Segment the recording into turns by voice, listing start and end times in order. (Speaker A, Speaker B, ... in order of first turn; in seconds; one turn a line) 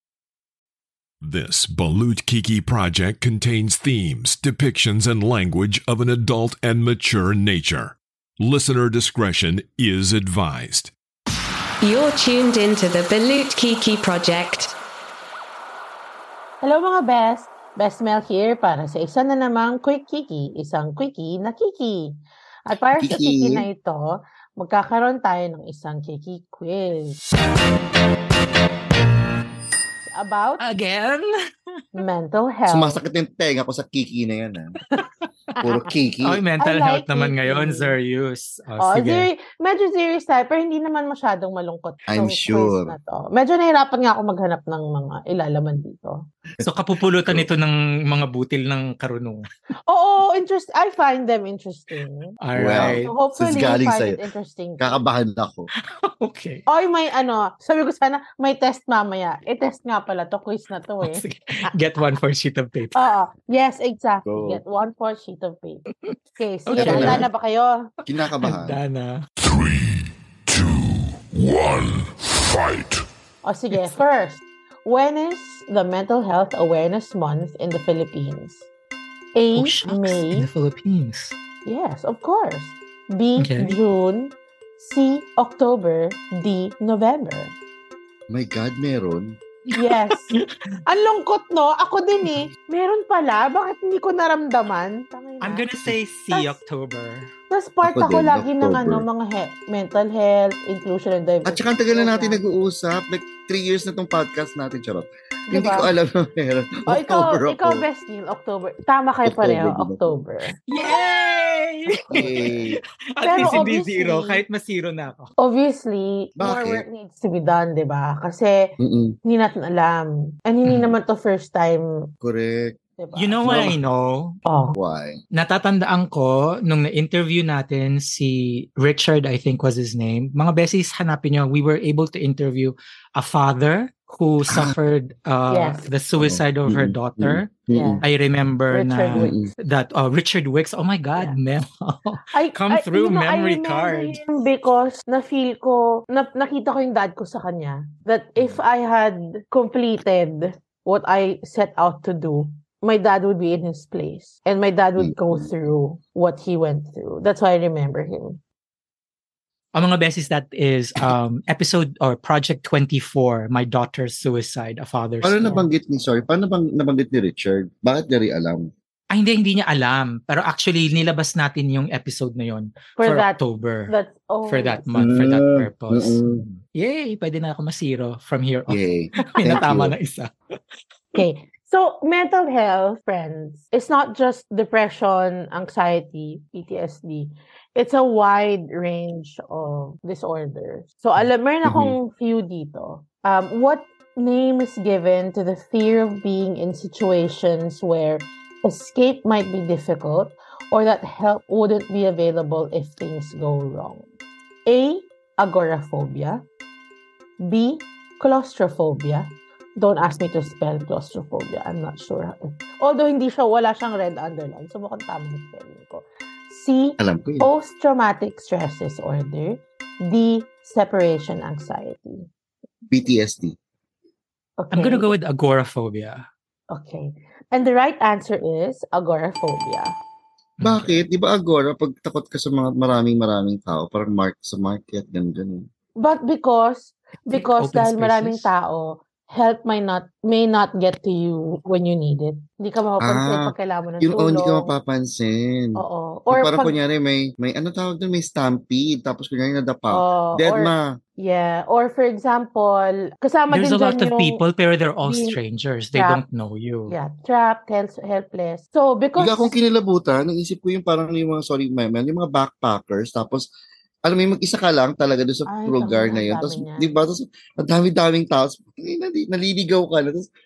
Speaker A: 1.2-10.9
Speaker B: 11.8-14.7
Speaker C: 16.6-22.1
Speaker C: 22.6-27.2
Speaker D: 23.0-23.7
Speaker C: 30.1-30.6
Speaker E: 30.6-31.8
Speaker C: 31.9-33.0
Speaker D: 32.7-34.7
Speaker E: 35.0-35.6
Speaker D: 35.6-36.4
Speaker E: 36.2-39.3
Speaker C: 36.6-38.0
Speaker C: 38.8-46.2
Speaker D: 42.1-43.0
Speaker D: 46.6-47.5
Speaker E: 46.6-49.5
Speaker C: 49.9-52.4
Speaker E: 52.4-53.1
Speaker D: 52.5-54.3
Speaker C: 53.0-55.0
Speaker D: 54.8-55.7
Speaker E: 56.0-56.6
Speaker C: 56.7-61.2
Speaker E: 61.0-63.0
Speaker C: 62.9-65.8
Speaker D: 64.2-64.6
Speaker C: 66.4-67.9
Speaker E: 66.7-67.3
Speaker D: 66.8-67.3
Speaker D: 68.1-68.8
Speaker E: 68.4-69.2
Speaker A: 71.5-71.8
Speaker C: 73.4-78.6
Speaker C: 79.3-80.5
Speaker E: 79.5-81.4
Speaker C: 81.6-87.5
Speaker E: 83.4-83.8
Speaker D: 88.3-89.4
Speaker E: 89.7-90.5
Speaker C: 89.8-95.6
Speaker E: 95.4-97.3
Speaker C: 96.3-96.6
Speaker C: 97.5-102.4
Speaker D: 97.8-99.1
Speaker D: 101.5-107.8
Speaker C: 105.5-105.9
Speaker C: 106.9-110.6
Speaker D: 109.2-110.2
Speaker E: 110.7-112.5
Speaker D: 112.1-112.8
Speaker E: 113.1-115.3
Speaker C: 113.2-114.4
Speaker C: 115.4-122.1
Speaker D: 116.4-116.8
Speaker D: 118.8-119.2
Speaker E: 120.6-121.0
Speaker D: 122.2-122.8
Speaker C: 123.0-123.5
Speaker E: 123.1-124.3
Speaker D: 123.5-123.8
Speaker C: 124.5-124.8
Speaker D: 124.7-125.2
Speaker E: 125.3-144.2
Speaker C: 135.5-135.8
Speaker D: 136.2-138.0
Speaker C: 137.7-138.0
Speaker C: 138.7-139.3
Speaker D: 139.2-139.5
Speaker C: 142.3-158.4
Speaker D: 155.0-155.5
Speaker E: 159.7-165.7
Speaker D: 165.2-168.7
Speaker E: 169.1-173.9
Speaker C: 173.0-174.9
Speaker E: 174.5-180.3
Speaker D: 174.9-176.4
Speaker D: 178.7-180.0
Speaker C: 179.4-179.6
Speaker C: 181.2-204.1
Speaker D: 191.6-192.0
Speaker C: 204.7-206.4
Speaker C: 207.4-222.3
Speaker D: 217.0-217.5
Speaker D: 222.9-223.6
Speaker C: 224.6-225.1
Speaker E: 224.7-226.2
Speaker C: 226.7-229.9
Speaker E: 230.6-231.0
Speaker D: 230.6-235.7
Speaker C: 236.0-244.7
Speaker E: 237.3-238.5
Speaker D: 243.0-250.9
Speaker C: 245.8-246.8
Speaker C: 249.9-254.4
Speaker E: 253.5-256.9
Speaker C: 255.0-255.4
Speaker C: 255.9-256.2
Speaker C: 256.9-259.5
Speaker D: 259.2-263.4
Speaker D: 264.1-270.3
Speaker C: 265.4-267.1